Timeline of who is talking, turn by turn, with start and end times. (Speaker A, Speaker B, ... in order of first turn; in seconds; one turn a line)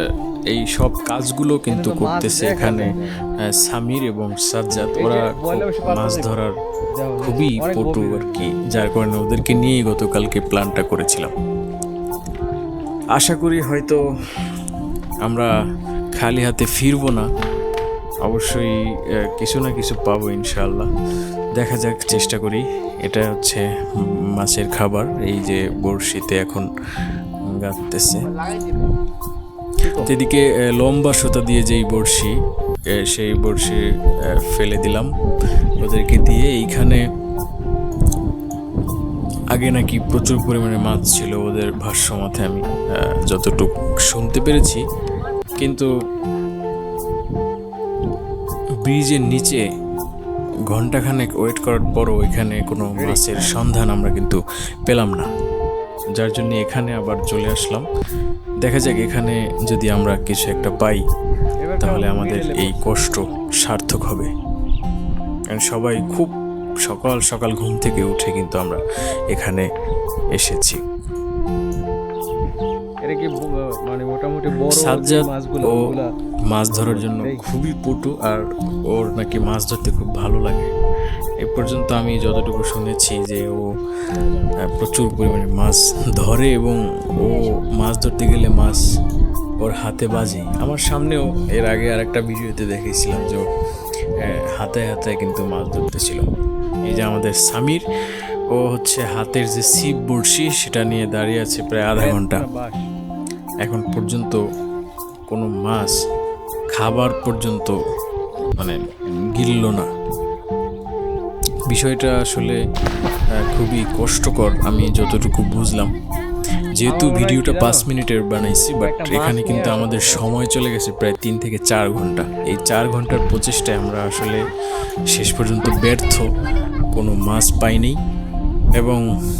Speaker A: 0.5-6.6
Speaker B: 1.6-3.3
Speaker B: 4.9-6.3
Speaker B: 7.0-8.6
Speaker A: 7.2-11.3
Speaker A: 13.1-14.0
Speaker A: 15.2-15.5
Speaker A: 16.1-17.3
Speaker A: 18.2-18.8
Speaker A: 19.3-20.9
Speaker A: 21.6-23.6
Speaker A: 24.4-26.7
Speaker A: 27.5-28.3
Speaker B: 29.8-30.1
Speaker A: 30.0-32.3
Speaker A: 33.0-35.1
Speaker A: 35.8-37.0
Speaker A: 39.5-44.8
Speaker A: 45.6-45.9
Speaker A: 48.8-49.6
Speaker A: 50.7-55.3
Speaker B: 53.0-53.6
Speaker A: 56.2-57.9
Speaker A: 58.6-61.0
Speaker B: 60.5-60.9
Speaker B: 61.6-63.3
Speaker A: 61.8-64.3
Speaker A: 65.5-66.3
Speaker A: 66.8-69.7
Speaker A: 70.3-70.8
Speaker B: 73.0-76.1
Speaker A: 74.7-75.9
Speaker A: 76.5-80.7
Speaker B: 76.7-77.5
Speaker A: 81.4-83.7
Speaker A: 84.4-88.9
Speaker A: 89.6-93.6
Speaker A: 94.2-96.2
Speaker A: 96.8-97.8
Speaker A: 98.5-102.5
Speaker B: 102.0-102.8
Speaker A: 103.6-104.4
Speaker A: 105.3-106.0
Speaker A: 106.7-107.8
Speaker A: 108.4-109.9
Speaker A: 111.7-112.6
Speaker A: 113.3-115.9
Speaker A: 116.8-124.4
Speaker B: 116.8-117.9
Speaker B: 118.8-120.3
Speaker A: 125.1-126.3
Speaker A: 126.9-128.0
Speaker A: 128.8-129.0